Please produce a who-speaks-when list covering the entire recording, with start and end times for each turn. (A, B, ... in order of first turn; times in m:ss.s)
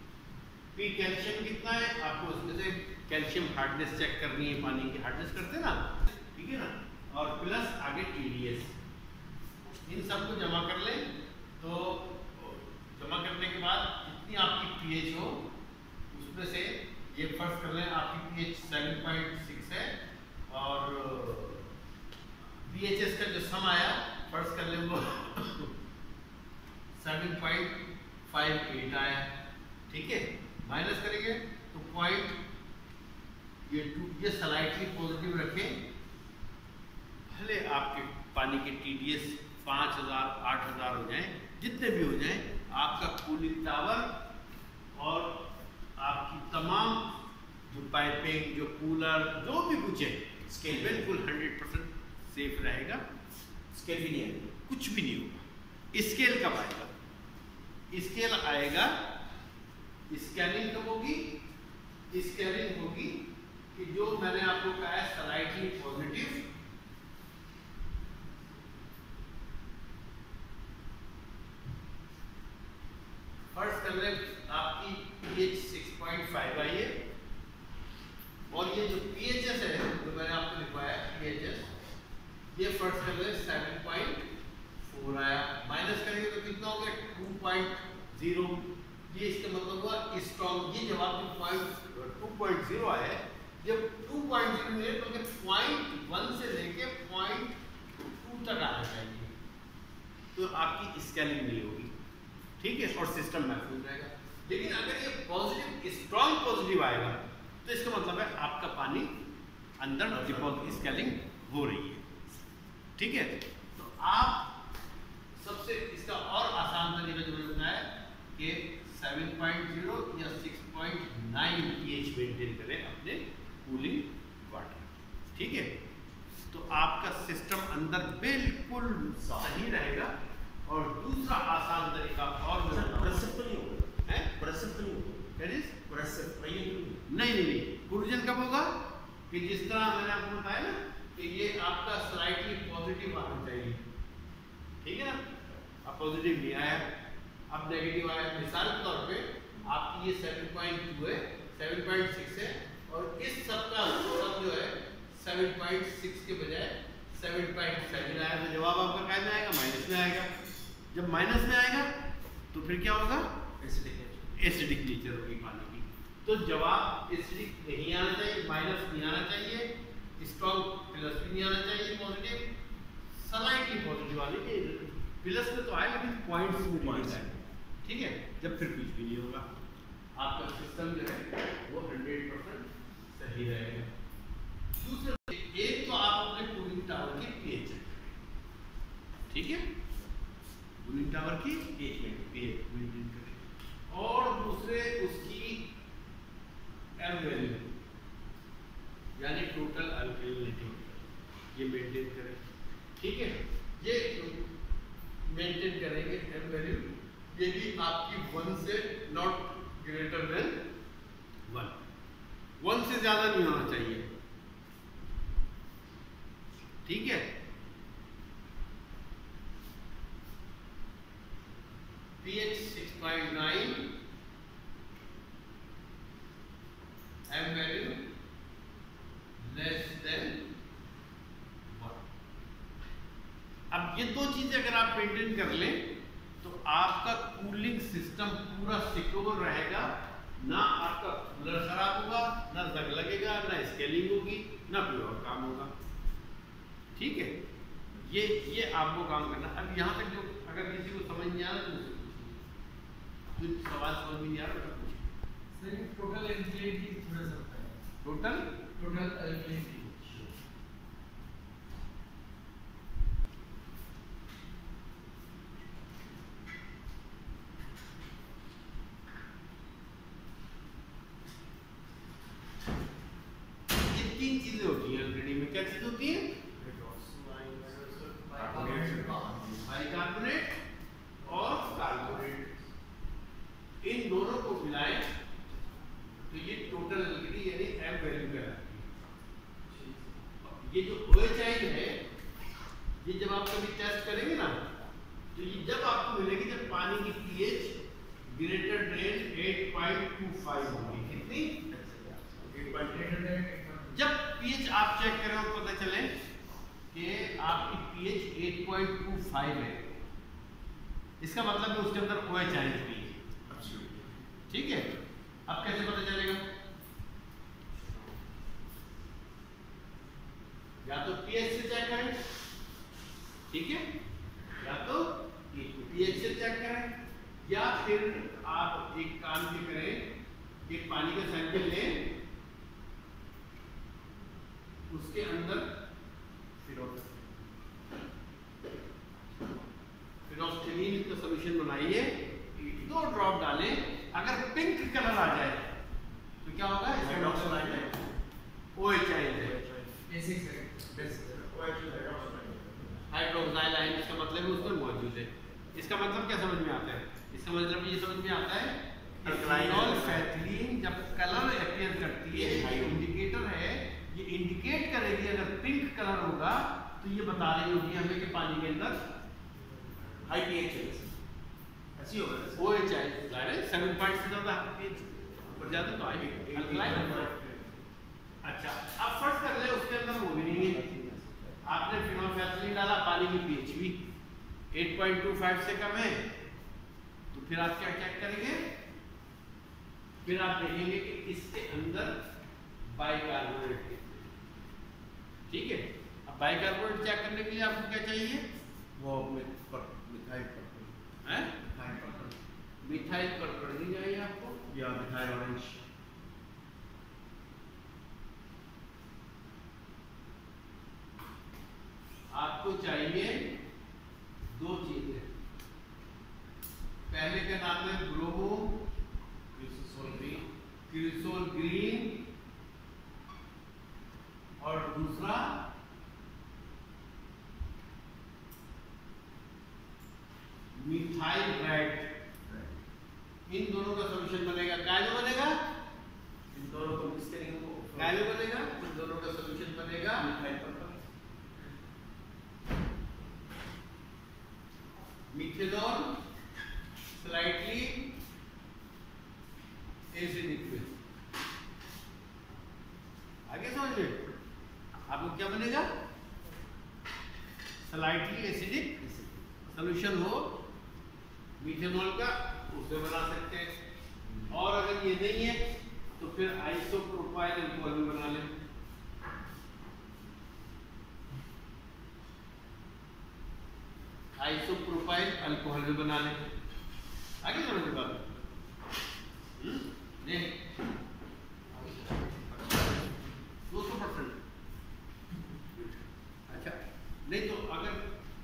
0:00.7-0:08.8 A
0:09.8-0:15.5 A
0:16.1-0:19.9 A
0:20.5-0:21.7 A
0:22.6-0:25.7 A
0:27.0-0:29.3 A
0:29.9-0:32.4 A
0:33.7-0:35.8 A
0:37.3-0:44.1 A
0:45.0-0:47.1 A
0:47.7-0:53.0 A
0:50.5-0:51.1 B
0:53.7-0:54.5 B
0:54.7-0:56.9 A
0:57.9-0:59.0 A
1:00.1-1:01.4 A
1:02.1-1:06.5 A
1:13.5-1:17.0 A
1:18.5-1:21.7 A
1:22.5-1:24.3 A
1:24.8-1:39.3 A
1:40.3-1:41.9 A
1:42.6-1:49.2 A
1:49.8-1:52.0 A
1:50.1-1:50.9 B
1:53.0-1:54.5 A
1:55.4-2:05.7 A
2:06.5-2:10.1 A
2:09.2-2:09.6 B
2:10.7-2:13.3 A
2:12.7-2:15.3 B
2:14.0-2:14.3 A
2:15.4-2:15.8 A
2:15.9-2:17.0 B
2:17.1-2:23.8 A
2:24.8-2:25.2 A
2:25.8-2:26.9 A
2:27.5-2:40.3 A
2:40.9-2:41.9 A
2:42.5-2:43.3 A
2:43.6-2:44.3 B
2:44.4-2:52.5 A
2:53.1-2:59.5 A
2:56.8-2:57.4 B
3:00.2-3:03.9 A
3:04.8-3:08.1 A
3:09.3-3:09.7 A
3:10.8-3:15.7 A
3:11.8-3:12.1 B
3:17.0-3:17.7 A
3:19.2-3:21.0 A
3:21.5-3:22.4 A
3:23.0-3:24.5 A
3:25.2-3:30.7 A
3:31.5-3:31.8 A
3:32.6-3:34.1 A
3:36.9-3:37.3 A
3:42.2-3:43.9 A
3:47.3-3:48.1 A
3:49.4-3:50.5 A
3:51.7-3:52.0 A
3:53.7-3:55.9 A
3:56.4-4:05.7 A
4:07.0-4:07.4 A
4:08.0-4:12.4 A
4:13.4-4:15.1 A
4:15.6-4:17.8 C
4:18.0-4:18.6 A
4:18.8-4:20.2 C
4:33.8-4:36.4 A
4:36.6-4:39.6 B
4:38.2-4:39.3 C
4:39.6-4:40.6 A
4:41.2-4:42.4 A
4:41.6-4:42.5 B
4:43.8-4:45.1 A
4:46.3-4:48.9 A
4:49.7-4:50.0 C
4:50.4-4:52.0 A
4:53.0-4:54.6 A
4:55.3-4:57.8 A
4:58.3-5:01.6 A
5:01.7-5:03.2 B
5:02.7-5:03.9 C
5:03.9-5:06.1 A
5:06.9-5:09.9 A
5:11.2-5:13.2 A
5:13.5-5:14.0 B
5:14.5-5:14.9 A
5:15.5-5:16.4 A
5:20.8-5:22.2 A
5:23.5-5:23.8 A
5:24.6-5:30.1 A
5:25.6-5:26.1 B
5:30.7-5:32.2 A
5:34.9-5:35.7 A
5:36.7-5:37.0 A
5:40.3-5:45.6 A
5:46.4-5:47.9 A
5:47.0-5:48.0 B
5:48.8-5:49.6 A
5:49.4-5:50.0 B
5:50.1-5:51.3 C
5:51.0-5:53.0 B
5:53.1-6:09.0 A
5:59.2-6:00.3 B
6:02.3-6:03.0 B
6:10.2-6:11.2 B
6:12.0-6:12.6 B
6:12.6-6:17.3 A
6:15.5-6:17.7 B
6:18.4-6:20.8 A
6:20.5-6:21.6 B
6:21.6-6:24.0 A
6:24.7-6:26.3 A
6:27.3-6:28.7 A
6:30.2-6:32.2 A
6:33.0-6:34.3 A
6:35.5-6:38.4 A
6:39.0-6:41.0 B
6:41.2-6:41.6 A
6:41.6-6:42.4 B
6:42.8-6:44.6 A
6:44.7-6:45.8 B
6:52.3-6:53.6 A
6:54.6-6:55.3 A
6:57.1-6:58.9 A
6:59.6-7:00.4 B
7:00.9-7:02.3 A
7:04.6-7:05.7 A
7:10.7-7:12.1 A
7:13.5-7:15.6 A
7:16.5-7:18.2 B
7:18.0-7:20.3 A
7:20.2-7:21.0 B
7:25.3-7:26.2 A
7:27.1-7:28.1 A
7:30.1-7:30.9 A
7:33.5-7:34.3 A
7:35.1-7:35.9 A
7:37.8-7:39.0 A
7:39.0-7:39.4 B
7:39.7-7:40.6 A
7:41.6-7:43.8 A
7:44.5-7:45.6 A
7:46.2-7:48.5 A
7:54.4-7:56.5 A
7:57.4-7:58.3 A
7:59.6-8:00.5 A
8:03.7-8:04.4 A
8:06.5-8:08.0 A